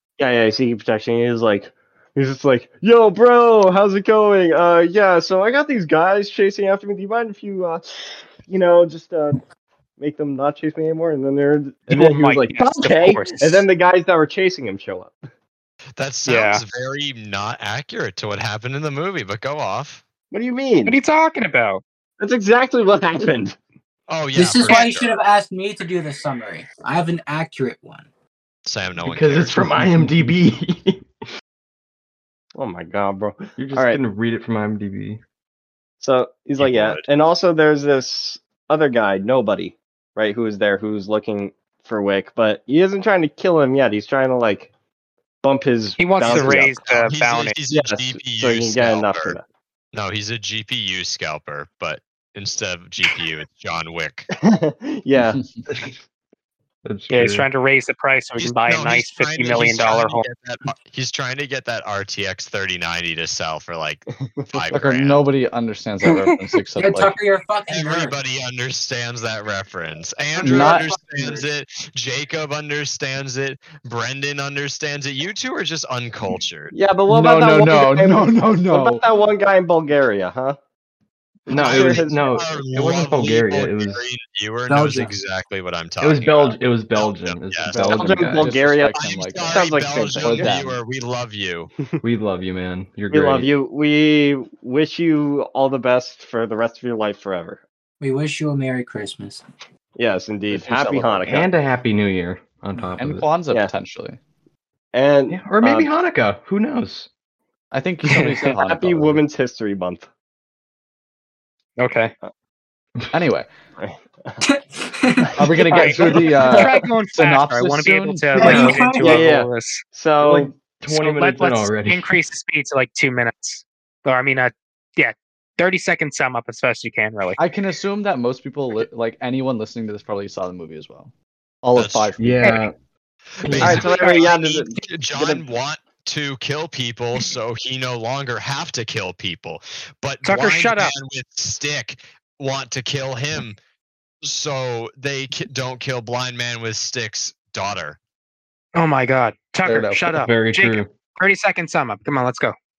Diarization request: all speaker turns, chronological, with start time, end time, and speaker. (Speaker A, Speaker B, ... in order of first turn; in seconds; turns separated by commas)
Speaker A: 0.2-9.4, Speaker A: 10.0-15.2, Speaker B: 11.9-13.7, Speaker C: 16.0-20.0, Speaker B: 16.2-16.6, Speaker A: 20.3-20.9, Speaker B: 20.9-21.8, Speaker A: 22.2-23.6, Speaker C: 24.1-25.2, Speaker D: 24.3-28.1, Speaker C: 28.6-29.8, Speaker E: 29.0-31.1, Speaker A: 32.6-34.0, Speaker E: 33.6-35.2, Speaker A: 36.0-44.7, Speaker C: 36.6-37.0, Speaker A: 45.4-46.7, Speaker B: 46.0-47.5, Speaker C: 46.2-49.4, Speaker A: 47.7-49.4, Speaker C: 49.9-54.3, Speaker A: 54.4-55.4, Speaker E: 56.8-57.5, Speaker B: 57.1-60.2, Speaker C: 58.4-65.2, Speaker F: 64.7-67.2, Speaker D: 66.1-68.2, Speaker C: 67.7-76.7, Speaker F: 70.4-70.9, Speaker D: 70.4-71.4, Speaker A: 76.7-80.6, Speaker F: 77.1-79.0, Speaker A: 81.5-82.6, Speaker E: 81.5-84.0, Speaker C: 81.5-88.0, Speaker D: 84.7-85.1, Speaker E: 86.0-88.5, Speaker F: 87.7-90.8, Speaker A: 87.9-90.5, Speaker C: 88.9-91.7, Speaker E: 92.0-93.5, Speaker A: 93.1-97.6, Speaker D: 98.0-99.4, Speaker A: 100.0-101.5, Speaker F: 100.5-101.2, Speaker E: 101.2-103.3, Speaker F: 103.0-104.2, Speaker A: 104.9-105.9, Speaker E: 105.3-107.1, Speaker F: 107.7-109.2, Speaker B: 108.0-108.5, Speaker A: 108.5-110.1, Speaker B: 111.8-112.1, Speaker F: 113.1-113.5, Speaker A: 113.8-114.4, Speaker D: 114.4-115.3, Speaker F: 115.3-118.6, Speaker A: 115.7-116.6, Speaker B: 115.7-119.8, Speaker D: 118.4-119.2, Speaker A: 118.4-120.5, Speaker E: 120.2-122.1, Speaker B: 120.9-127.4, Speaker F: 127.4-131.1, Speaker F: 131.6-132.5, Speaker C: 131.7-132.1, Speaker E: 132.2-132.7, Speaker E: 133.4-133.9, Speaker C: 133.4-143.6, Speaker A: 133.6-135.4, Speaker B: 140.2-140.9, Speaker C: 144.2-148.0, Speaker B: 148.7-152.5, Speaker F: 149.6-150.2, Speaker E: 150.2-150.9